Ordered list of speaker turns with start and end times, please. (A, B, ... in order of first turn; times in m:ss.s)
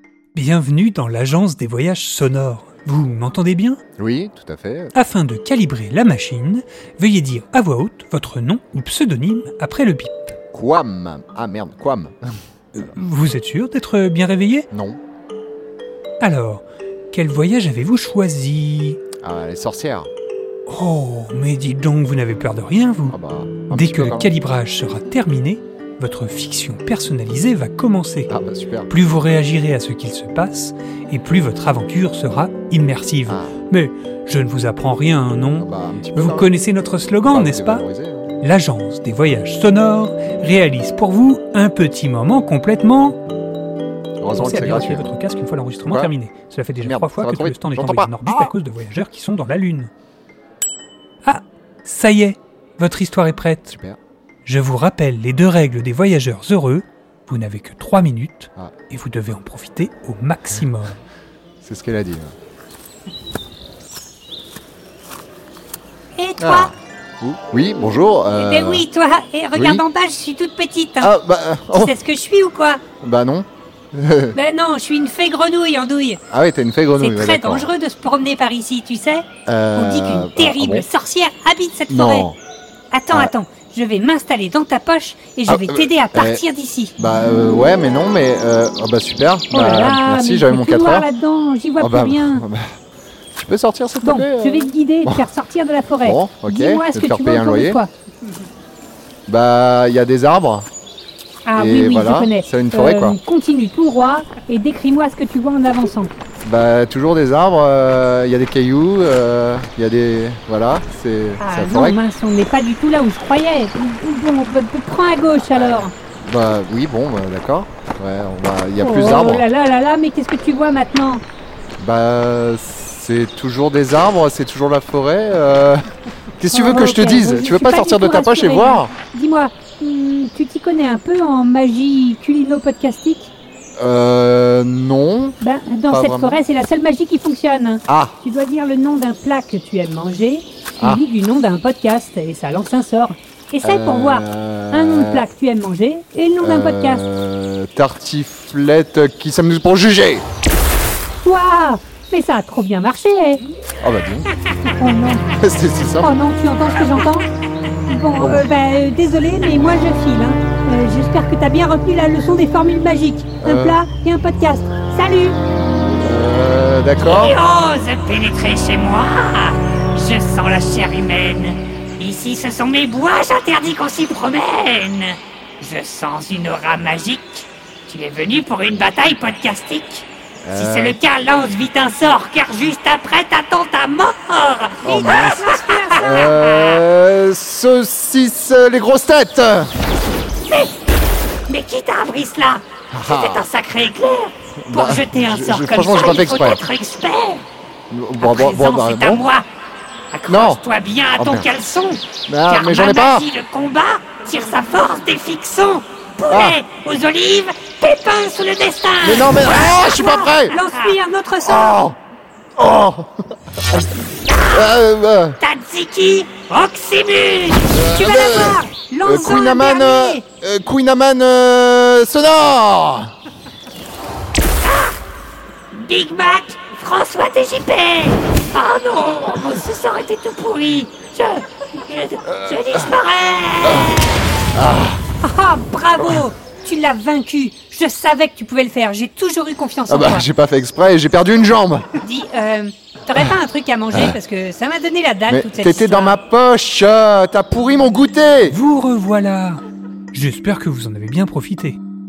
0:00.4-0:03.8 A
0:04.0-0:04.9 B
0:05.0-0:10.4 A
0:10.5-0:12.3 B
0:12.7-0:14.7 A
0:14.7-0:15.0 B
0:16.2-0:19.0 A
0:19.2-0:20.1 B
0:20.7-0:23.2 A
0:23.1-0:24.3 B
0:23.7-0:28.3 A
0:28.3-0:28.9 B
0:28.9-0:37.8 A
0:33.3-0:33.6 B
0:35.6-0:36.5 B
0:37.3-0:38.3 B
0:38.4-0:43.2 A
0:44.2-0:45.1 B
0:44.4-0:49.9 A
0:45.9-0:46.1 B
0:46.8-0:48.5 B
0:51.2-0:53.7 A
0:53.7-0:54.0 B
0:54.4-1:01.0 A
1:01.6-1:02.3 B
1:06.2-1:06.7 C
1:06.4-1:08.9 B
1:08.3-1:11.1 C
1:09.5-1:09.8 B
1:11.0-1:12.0 B
1:11.7-1:12.8 C
1:13.0-1:14.4 B
1:14.3-1:16.2 C
1:16.3-1:17.7 B
1:17.0-1:22.3 C
1:19.5-1:20.9 B
1:21.9-1:22.4 B
1:22.9-1:27.0 C
1:25.5-1:26.4 B
1:27.0-1:31.1 B
1:29.5-1:32.5 C
1:31.8-1:32.7 B
1:33.3-1:35.3 B
1:34.0-1:37.9 C
1:36.0-1:37.8 B
1:39.3-1:40.7 B
1:41.4-1:46.1 C
1:41.6-1:43.2 B
1:46.4-1:52.0 B
1:51.4-1:55.9 C
1:55.5-1:59.5 B
1:58.8-2:01.2 C
2:01.8-2:05.8 B
2:06.4-2:08.9 B
2:06.5-2:13.3 C
2:13.8-2:15.4 B
2:15.4-2:27.0 C
2:15.9-2:16.4 B
2:17.9-2:18.2 B
2:23.6-2:25.3 B
2:26.4-2:30.2 B
2:31.2-2:33.4 C
2:33.8-2:34.3 B
2:34.7-2:35.3 C
2:35.4-2:36.1 B
2:36.0-2:37.3 C
2:37.8-2:45.4 C
2:38.2-2:38.4 B
2:43.4-2:43.8 B
2:46.0-2:47.4 B
2:47.0-3:06.8 D
3:00.4-3:01.0 B
3:04.8-3:09.7 B
3:05.0-3:06.4 C
3:10.5-3:10.8 D
3:11.5-3:17.4 D
3:12.9-3:13.5 B
3:14.6-3:16.6 B
3:17.9-3:19.3 B
3:18.2-3:19.5 D
3:20.1-3:29.9 D
3:20.3-3:20.6 B
3:21.2-3:21.5 B
3:22.3-3:23.3 B
3:26.3-3:26.6 B
3:29.0-3:30.6 B
3:29.8-3:31.8 C
3:30.6-3:30.9 D
3:31.4-3:32.0 B
3:32.6-3:33.8 B
3:34.3-3:34.7 D
3:34.4-3:35.4 B
3:35.4-3:37.8 D
3:37.7-3:43.1 B
3:37.8-3:40.2 C
3:44.6-3:45.0 D
3:45.7-3:54.1 D
3:52.3-3:52.9 B
3:53.7-3:54.0 B
3:54.5-3:55.0 B
3:55.2-4:00.3 C
3:59.9-4:01.9 B
4:02.0-4:06.2 C
4:05.3-4:08.6 B
4:08.5-4:09.6 A
4:10.1-4:11.8 A